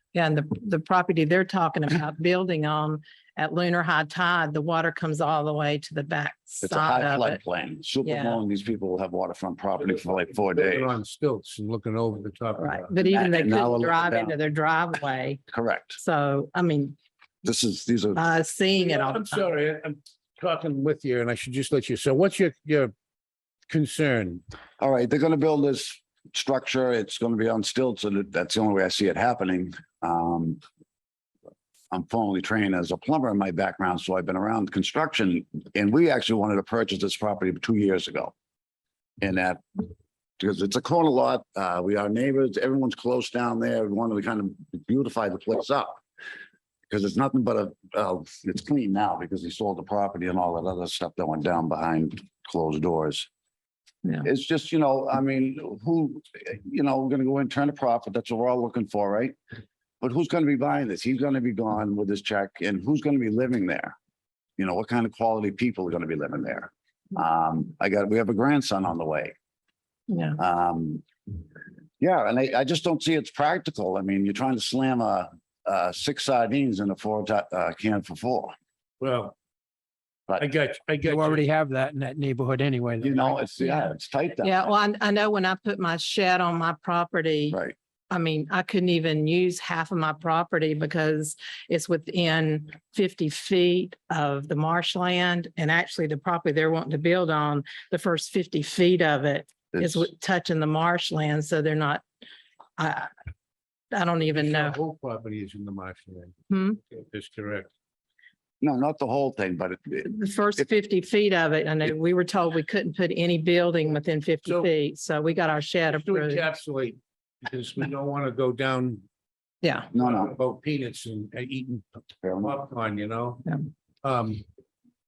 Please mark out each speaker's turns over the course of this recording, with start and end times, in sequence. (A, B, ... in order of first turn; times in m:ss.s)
0:00.1-0:07.4 A
0:06.6-0:10.9 B
0:08.0-0:08.4 A
0:10.4-0:12.9 C
0:12.6-0:15.4 A
0:13.0-0:14.4 B
0:15.5-0:16.0 B
0:16.0-0:17.0 A
0:17.4-0:18.2 B
0:18.2-0:19.5 A
0:18.8-0:22.9 C
0:23.7-0:24.4 C
0:24.8-0:30.6 B
0:31.9-0:38.3 B
0:39.2-0:46.0 B
0:46.9-0:53.3 B
0:54.2-0:59.4 B
1:00.0-1:04.0 B
1:04.6-1:09.4 B
1:10.1-1:10.4 A
1:10.4-1:11.0 B
1:12.0-1:18.5 B
1:19.0-1:19.4 C
1:20.4-1:21.4 C
1:21.0-1:23.4 D
1:23.0-1:24.7 B
1:23.6-1:27.6 A
1:28.1-1:42.0 A
1:39.7-1:40.1 B
1:42.8-1:43.1 A
1:43.9-1:44.8 A
1:44.3-1:46.4 C
1:46.5-1:46.8 A
1:46.9-1:47.7 C
1:48.6-1:50.6 B
1:50.0-1:56.4 A
1:55.9-1:59.0 C
1:59.6-1:59.9 A
1:59.9-2:03.5 C
1:59.9-2:00.3 B
2:02.2-2:02.6 B
2:04.0-2:04.4 C